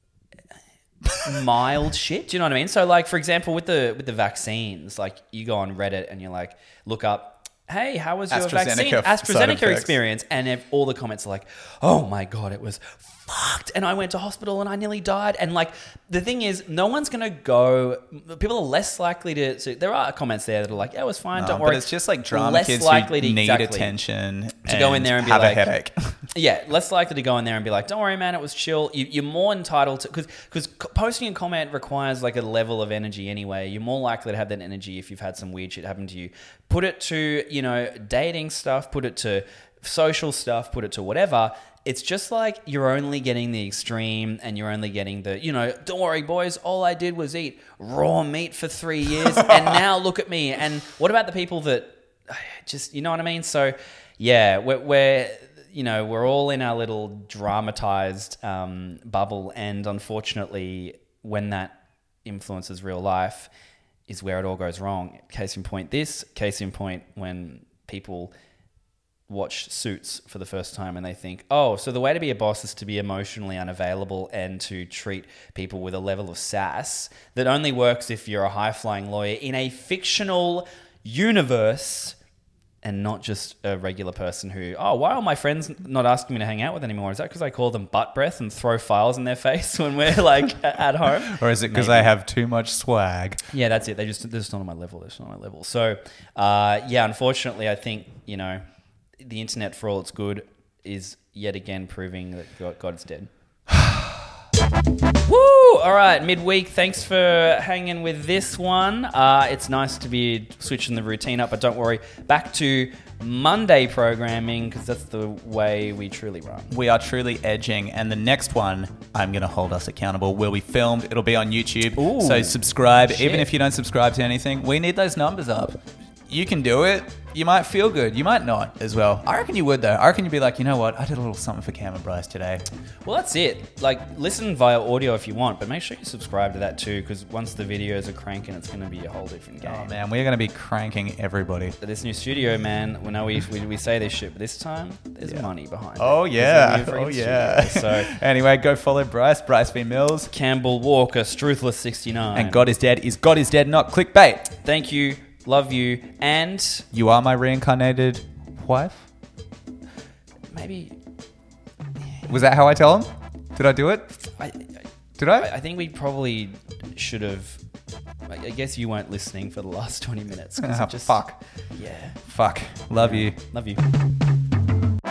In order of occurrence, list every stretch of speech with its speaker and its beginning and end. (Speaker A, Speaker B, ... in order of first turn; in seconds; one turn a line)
Speaker A: 1.2-24.0
Speaker B: 8.3-9.9
Speaker B: 21.4-26.2
Speaker A: 24.6-25.7
Speaker A: 26.3-63.5
Speaker A: 64.1-68.3
Speaker A: 69.3-82.2
Speaker A: 82.8-92.1
Speaker B: 91.2-93.4
Speaker A: 93.5-98.6
Speaker A: 99.2-103.3
Speaker A: 105.2-116.7
Speaker B: 116.7-125.8
Speaker A: 122.0-123.5
Speaker B: 126.3-132.6
Speaker A: 133.0-140.0
Speaker B: 139.6-141.8
Speaker A: 141.8-148.1
Speaker B: 145.2-150.3
Speaker A: 150.3-152.6
Speaker B: 152.3-154.5
Speaker A: 154.6-156.9
Speaker B: 156.9-159.1
Speaker A: 160.5-161.0
Speaker B: 162.3-164.1
Speaker A: 164.4-164.7
Speaker B: 165.2-165.5
Speaker A: 165.3-167.6
Speaker A: 168.3-171.2
Speaker B: 170.6-171.4
Speaker A: 171.8-172.2
Speaker B: 172.2-173.4
Speaker A: 173.0-173.8